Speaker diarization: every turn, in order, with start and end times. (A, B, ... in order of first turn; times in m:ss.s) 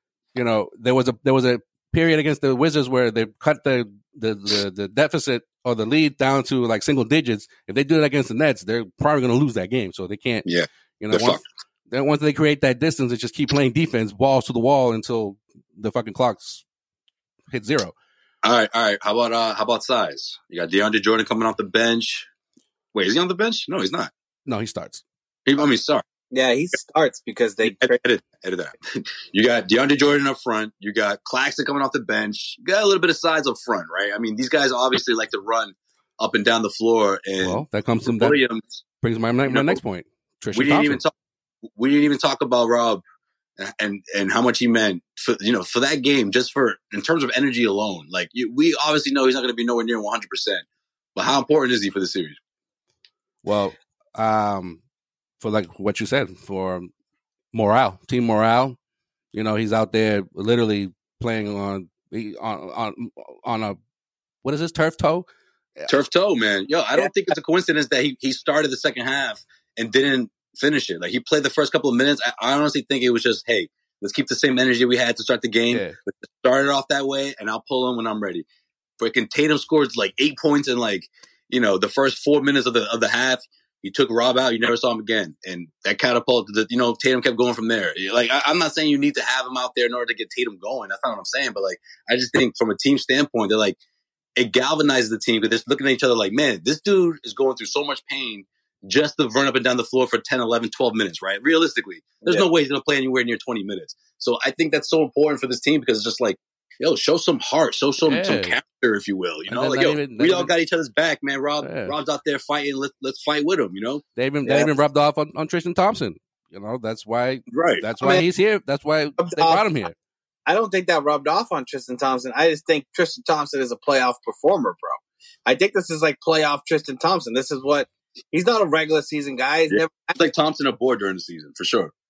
0:00.4-0:10.5 A
0:10.4-0:11.4 B
0:11.0-0:16.6 A
0:17.5-0:17.9 A
0:18.4-0:22.3 B
0:22.9-0:24.1 B
0:24.5-0:25.0 A
0:25.5-0:26.0 B
0:26.3-0:28.0 C
0:27.6-0:38.8 B
0:37.4-0:38.4 A
0:39.0-0:41.0 A
0:39.5-0:39.8 B
0:40.5-0:41.1 B
0:41.8-0:43.0 B
0:43.6-0:50.6 B
0:51.2-0:52.4 B
0:53.4-0:54.8 A
0:55.4-0:56.9 A
0:57.5-0:58.8 A
0:59.3-1:03.8 A
1:04.4-1:05.3 A
1:05.9-1:18.4 B
1:15.7-1:16.0 A
1:19.0-1:33.8 B
1:34.4-1:54.0 B
1:48.0-1:48.6 A
1:49.5-1:50.5 A
1:51.6-1:51.9 A
1:54.2-2:00.0 A
1:54.4-1:54.7 C
1:57.5-1:57.8 B
1:59.2-1:59.7 C
2:00.5-2:10.2 C
2:09.7-2:11.9 B